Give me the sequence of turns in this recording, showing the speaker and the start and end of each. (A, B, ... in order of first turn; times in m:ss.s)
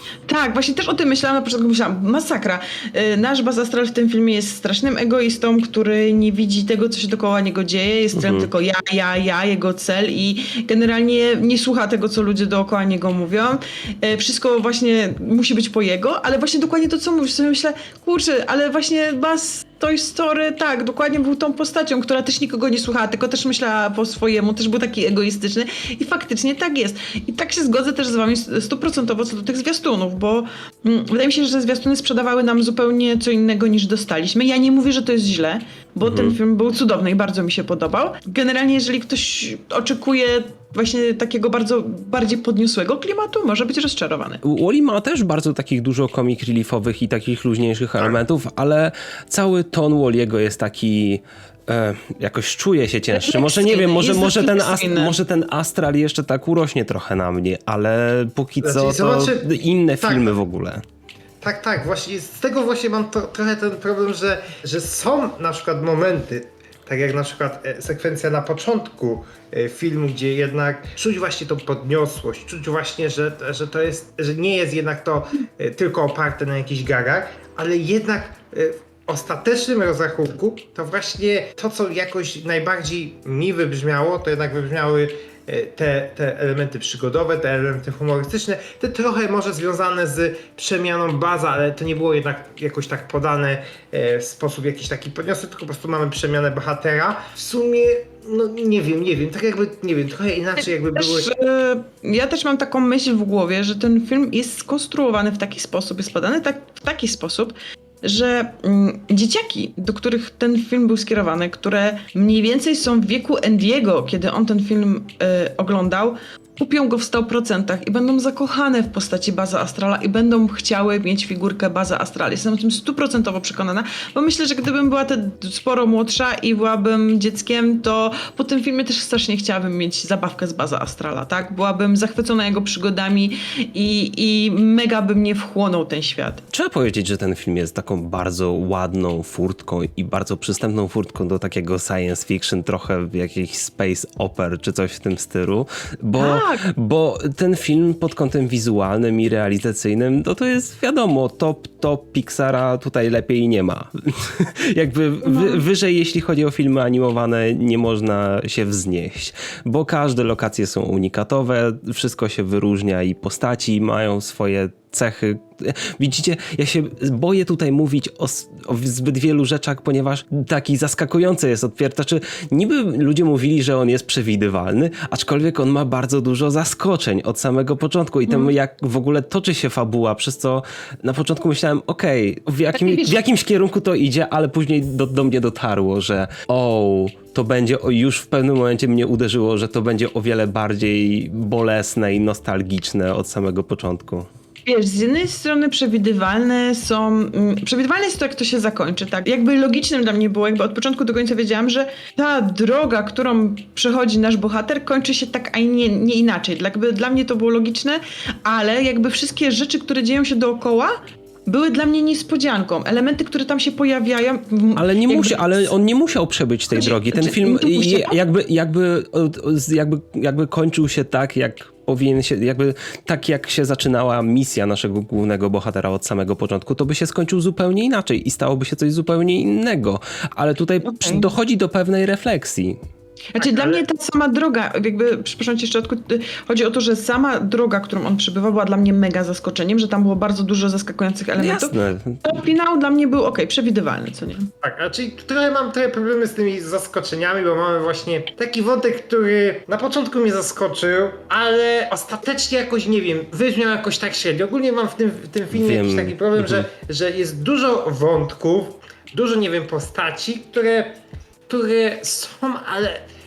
0:00.3-0:44.4 A
0:08.1-0:08.5 B
0:36.0-0:36.4 B
0:44.4-1:00.8 B
0:53.1-0:55.2 A
0:58.6-0:59.5 C
1:00.0-1:00.4 C
1:01.4-1:41.3 C
1:40.6-2:16.4 A
2:16.5-3:14.3 B
2:26.1-2:26.7 A
2:35.2-2:35.6 A
2:58.3-2:58.5 A
3:02.7-3:03.2 A
3:14.6-3:35.6 A
3:34.8-3:52.8 B
3:36.7-3:38.2 A
3:50.8-3:51.3 A
3:53.3-4:04.5 A
3:53.4-3:53.8 C
4:01.4-4:02.4 B
4:04.6-4:23.0 C
4:15.5-4:16.6 B